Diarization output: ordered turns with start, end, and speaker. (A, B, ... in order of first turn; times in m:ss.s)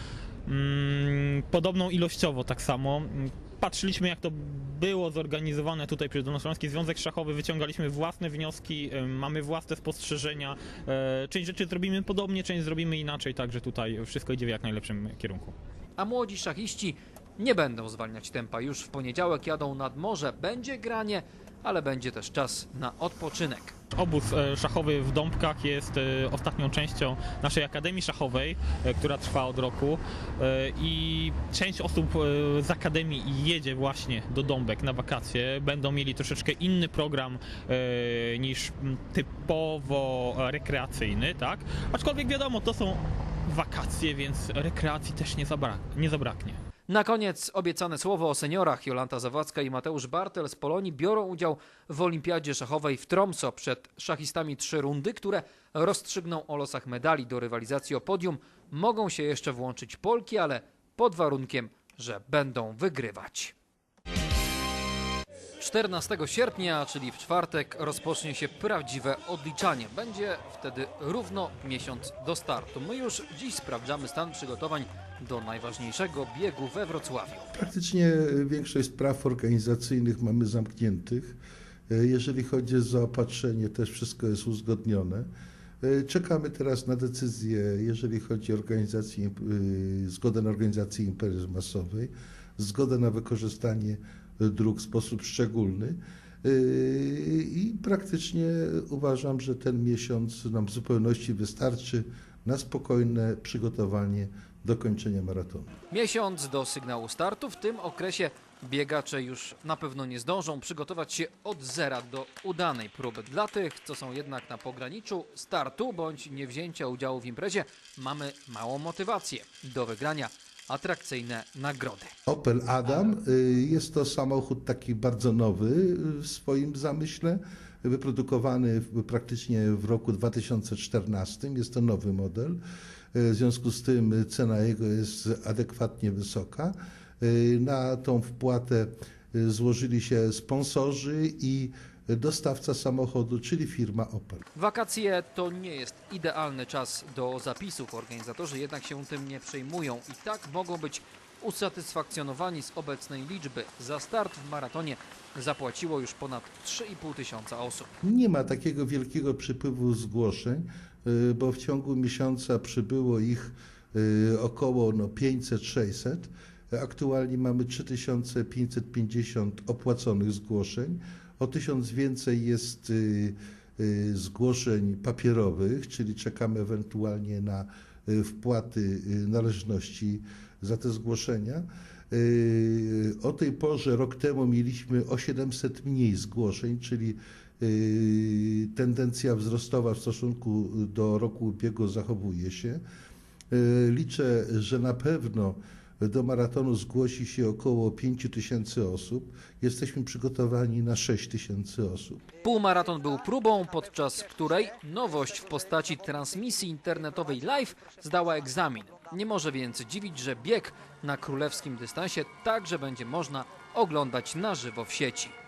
0:00.5-0:15.5 A
0:16.0-0:23.7 B
0:23.9-0:46.6 A
0:46.9-1:03.5 B
1:05.6-1:17.5 B
1:17.5-1:21.4 C
1:21.9-1:25.3 C
1:25.8-1:45.7 C
1:45.9-2:02.1 B
2:02.3-2:12.6 C
2:13.1-2:24.4 C
2:24.5-2:37.9 B
2:38.0-3:12.8 C
3:13.5-3:22.2 C
3:22.4-3:35.3 B